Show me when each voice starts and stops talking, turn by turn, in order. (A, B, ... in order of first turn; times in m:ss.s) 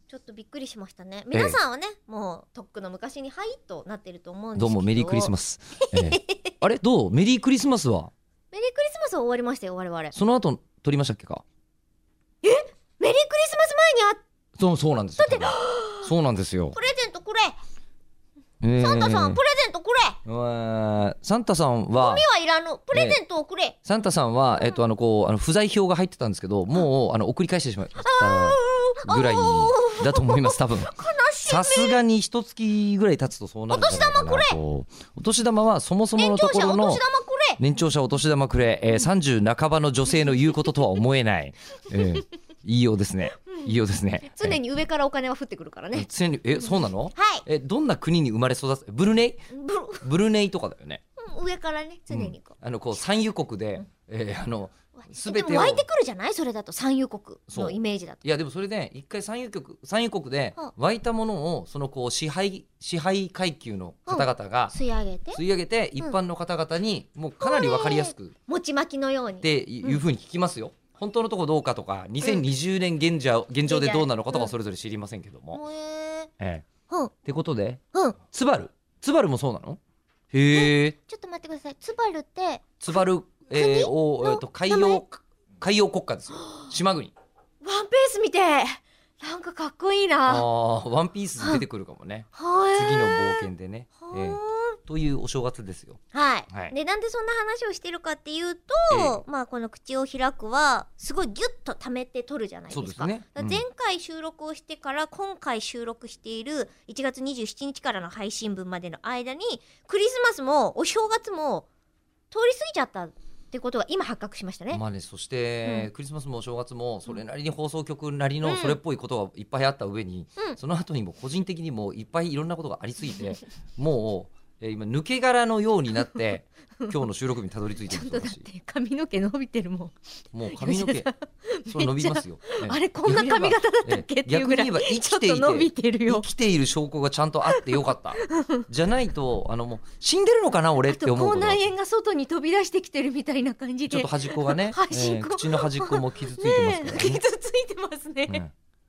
0:00.1-0:05.3 A
0:04.6-0:08.1 B
0:05.9-0:06.5 A
0:08.5-0:10.2 A
0:10.1-0:11.4 B
0:12.4-0:14.2 A
0:14.6-0:16.8 B
0:15.2-0:16.1 A
0:16.7-0:17.6 A
0:18.6-0:19.4 B
0:18.8-0:20.2 A
0:20.2-0:22.2 B
0:21.9-0:23.8 A
0:22.9-0:23.2 B
0:23.8-0:37.0 B
0:28.0-0:32.0 A
0:33.7-0:34.6 A
0:36.2-0:37.6 A
0:37.6-0:44.6 B
0:40.2-0:40.8 A
0:41.9-0:42.2 A
0:43.5-0:47.4 A
0:45.9-0:49.5 B
0:49.5-0:50.1 A
0:50.0-0:51.0 B
0:51.2-0:52.6 A
0:52.1-0:55.8 B
0:55.0-0:58.2 A
0:57.5-1:04.7 B
1:04.1-1:05.4 A
1:05.3-1:08.3 B
1:07.4-1:10.0 A
1:09.4-1:15.6 B
1:13.7-1:14.5 A
1:15.5-1:16.3 A
1:16.4-1:16.7 B
1:17.2-1:19.8 B
1:20.3-1:21.0 B
1:20.5-1:25.1 A
1:22.8-1:27.1 B
1:27.6-1:30.5 A
1:30.3-1:36.7 B
1:31.4-1:31.6 A
1:32.3-1:33.5 A
1:34.0-1:34.8 A
1:36.1-1:51.7 A
1:38.9-1:39.2 B
1:42.7-1:43.6 B
1:52.3-1:54.8 A
1:54.7-2:08.5 B
1:55.6-1:55.9 A
1:58.4-1:58.8 A
2:07.9-2:10.0 A
2:10.3-2:11.1 B
2:10.5-2:16.3 A
2:11.7-2:21.6 B
2:17.5-2:18.6 A
2:20.9-2:28.4 A
2:23.9-2:27.2 B
2:28.3-2:28.5 B